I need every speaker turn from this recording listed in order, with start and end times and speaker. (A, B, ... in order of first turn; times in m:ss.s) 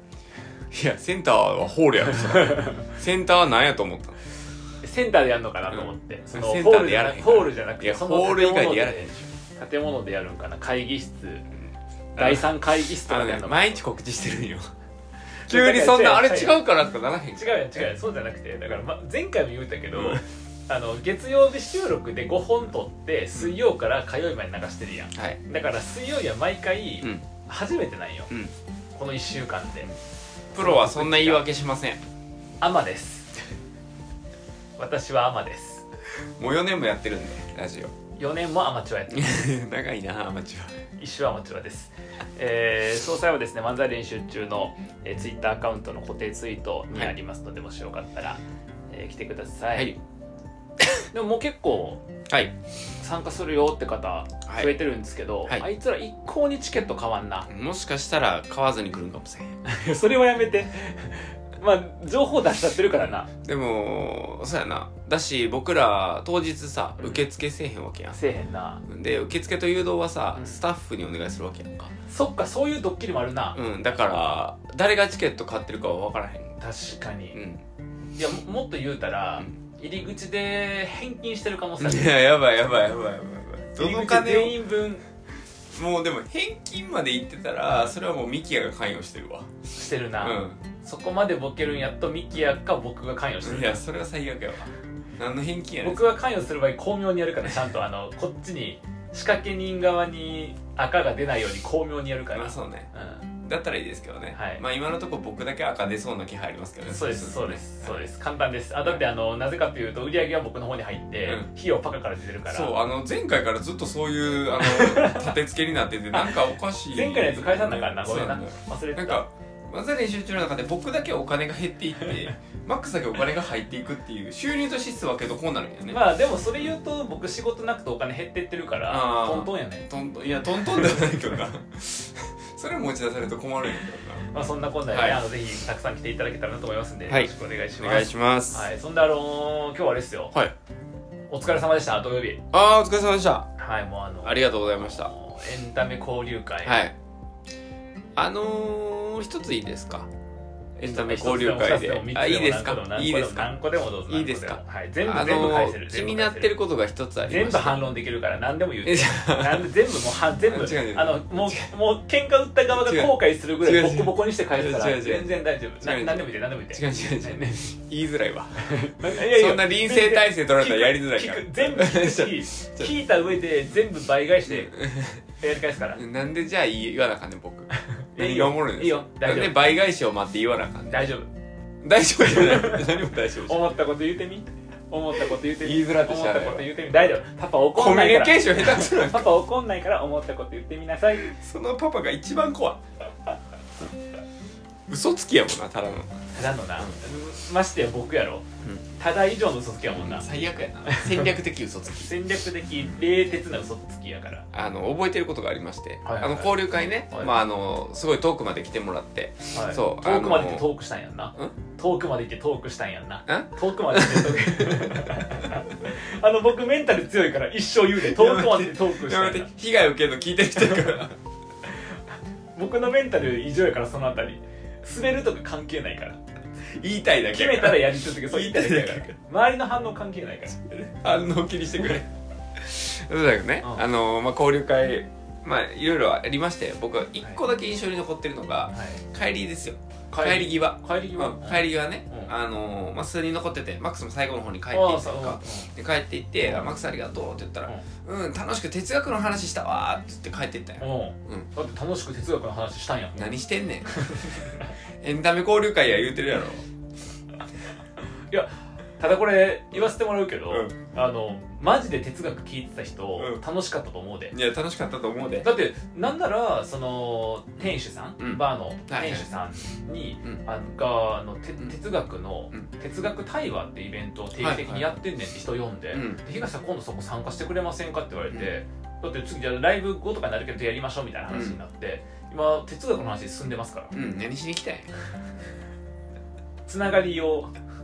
0:00.7-0:04.2 A
0:02.5-0:02.8 B
0:04.8-0:11.4 B
0:05.7-0:09.3 A
0:12.2-0:13.8 B
0:12.2-0:14.7 A
0:15.4-0:16.6 B
0:15.5-0:17.9 A
0:17.4-0:28.3 B
0:19.9-0:20.2 A
0:28.9-0:29.9 B
0:30.5-0:32.0 A
0:30.6-0:31.4 B
0:32.6-0:33.3 B
0:34.8-0:35.8 B
0:36.2-0:37.9 A
0:38.2-0:39.2 B
0:39.1-0:40.8 A
0:41.0-0:49.9 B
0:49.7-0:50.0 A
0:50.8-0:51.0 A
0:51.1-0:52.0 B
0:52.3-0:52.5 A
0:53.0-0:57.5 B
0:54.5-0:54.7 A
0:57.5-0:59.6 A
0:59.6-1:03.3 B
1:03.3-1:08.2 A
1:08.1-1:08.8 B
1:08.8-1:11.9 A
1:12.1-1:14.4 B
1:13.5-1:16.6 A
1:16.6-1:17.4 B
1:17.3-1:17.6 A
1:18.2-1:22.1 B
1:21.8-1:24.6 A
1:23.8-1:25.0 B
1:25.7-1:29.5 A
1:29.8-1:33.8 B
1:30.2-1:30.6 A
1:33.4-1:36.1 A
1:35.8-1:43.2 B
1:42.3-1:42.9 A
1:43.4-1:48.0 A
1:44.3-1:44.6 B
1:46.8-1:52.7 B
1:52.5-2:06.0 A
1:54.6-1:55.3 B
1:56.1-1:59.2 B
2:05.9-2:09.9 B
2:08.9-2:14.3 A
2:14.3-2:20.3 B
2:14.9-2:15.2 A
2:17.0-2:18.7 A
2:21.3-2:22.4 B
2:22.5-2:23.5 A
2:23.6-2:26.8 B
2:24.2-2:25.1 A
2:26.6-2:26.9 A
2:28.2-2:30.1 A
2:30.8-2:33.6 A
2:30.8-2:36.5 B
2:34.1-2:37.9 A
2:37.2-2:47.7 B
2:38.8-2:41.7 A
2:42.8-2:52.9 A
2:48.6-2:54.8 B
2:54.4-2:55.2 A
2:55.4-2:56.0 B
2:55.9-3:01.0 A
2:58.1-2:59.7 B
3:00.9-3:01.3 B
3:01.8-3:03.7 A
3:02.2-3:11.3 B
3:05.3-3:06.7 A
3:07.7-3:09.3 A
3:11.2-3:12.8 A
3:14.9-3:16.2 A
3:16.3-3:20.3 B
3:19.9-3:22.1 A
3:20.8-3:21.3 B
3:21.9-3:24.5 B
3:24.5-3:30.7 A
3:26.0-3:26.5 B
3:29.5-3:39.5 B
3:33.3-3:35.6 A
3:38.0-3:41.2 A
3:42.5-3:46.2 B
3:46.7-3:49.1 A
3:47.3-3:50.6 B
3:50.6-4:11.5 A
3:58.7-3:59.0 B
4:00.1-4:02.3 B
4:04.7-4:05.7 B
4:06.4-4:06.7 B
4:10.8-4:13.3 B
4:13.2-4:16.6 A
4:13.9-4:14.7 B
4:18.3-4:24.3 B
4:20.5-4:20.8 A
4:23.2-4:23.4 A
4:24.3-4:25.5 A
4:25.4-4:43.9 B
4:28.2-4:29.3 A
4:34.4-4:34.9 A
4:35.9-4:36.2 A
4:41.3-4:41.6 A
4:43.9-4:44.9 A
4:46.7-4:47.5 B